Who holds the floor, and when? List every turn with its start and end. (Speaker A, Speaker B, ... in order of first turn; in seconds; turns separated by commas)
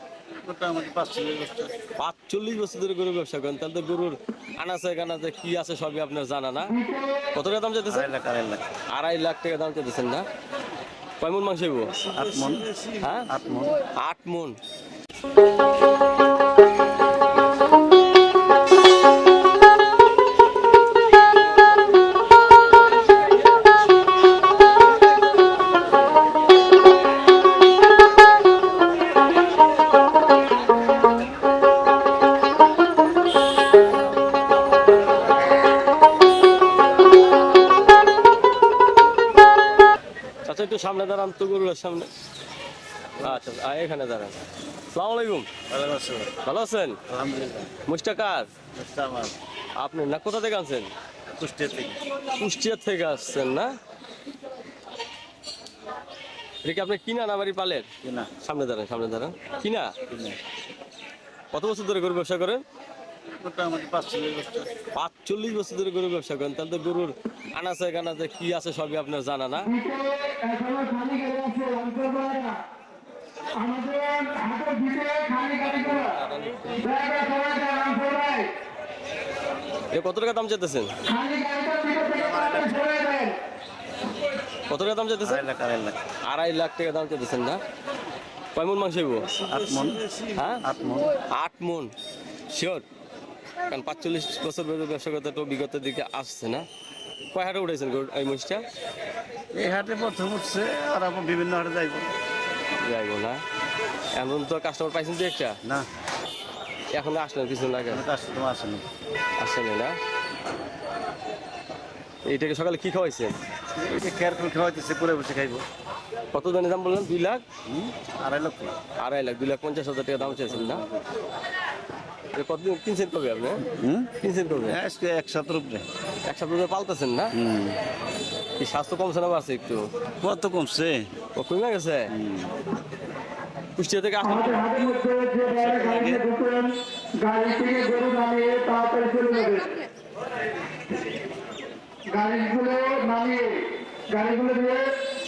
Speaker A: 0.4-1.8, Speaker B: 2.0-6.8, Speaker C: 6.7-7.3, Speaker B: 7.3-8.1, Speaker A: 7.9-8.6, Speaker B: 8.9-10.2, Speaker B: 11.2-12.0, Speaker A: 12.1-13.8, Speaker B: 13.0-13.3, Speaker B: 13.9-14.6, Speaker B: 40.4-42.1, Speaker A: 43.2-43.4, Speaker B: 43.2-44.3, Speaker B: 44.9-45.5, Speaker A: 45.7-46.3, Speaker B: 46.4-47.0, Speaker A: 47.1-47.7, Speaker B: 47.9-48.5, Speaker A: 48.7-49.4, Speaker B: 49.8-50.9, Speaker A: 51.4-52.0, Speaker B: 52.3-53.7, Speaker B: 56.6-57.9, Speaker A: 58.0-58.3, Speaker B: 58.4-59.9, Speaker A: 60.1-60.4, Speaker B: 61.5-62.6, Speaker A: 63.4-64.7, Speaker B: 64.9-69.7, Speaker C: 69.6-72.6, Speaker C: 73.6-76.2, Speaker B: 75.6-76.8, Speaker C: 76.8-78.5, Speaker B: 79.9-80.9, Speaker C: 81.1-83.4, Speaker A: 82.1-82.8, Speaker B: 84.7-85.4, Speaker A: 85.2-86.0, Speaker B: 86.2-87.6, Speaker B: 88.5-89.3, Speaker A: 89.4-91.1, Speaker B: 90.3-90.6, Speaker B: 91.3-91.9, Speaker B: 92.5-92.8, Speaker B: 93.7-96.7, Speaker B: 97.3-98.6, Speaker A: 99.5-102.1, Speaker B: 102.8-103.4, Speaker B: 104.1-105.6, Speaker B: 106.9-108.0, Speaker A: 107.9-108.8, Speaker B: 109.4-110.0, Speaker B: 112.2-113.3, Speaker A: 113.8-115.6, Speaker B: 116.3-117.4, Speaker A: 117.7-118.7, Speaker B: 119.0-120.8, Speaker A: 120.2-121.1, Speaker B: 122.3-123.6, Speaker A: 123.7-125.8, Speaker B: 124.2-124.8, Speaker B: 126.3-127.3, Speaker A: 127.3-127.8, Speaker B: 128.6-129.9, Speaker A: 130.2-131.1, Speaker B: 131.3-132.1, Speaker A: 132.1-132.5, Speaker B: 133.8-134.7, Speaker C: 134.2-139.8, Speaker A: 135.5-136.2, Speaker C: 142.1-144.9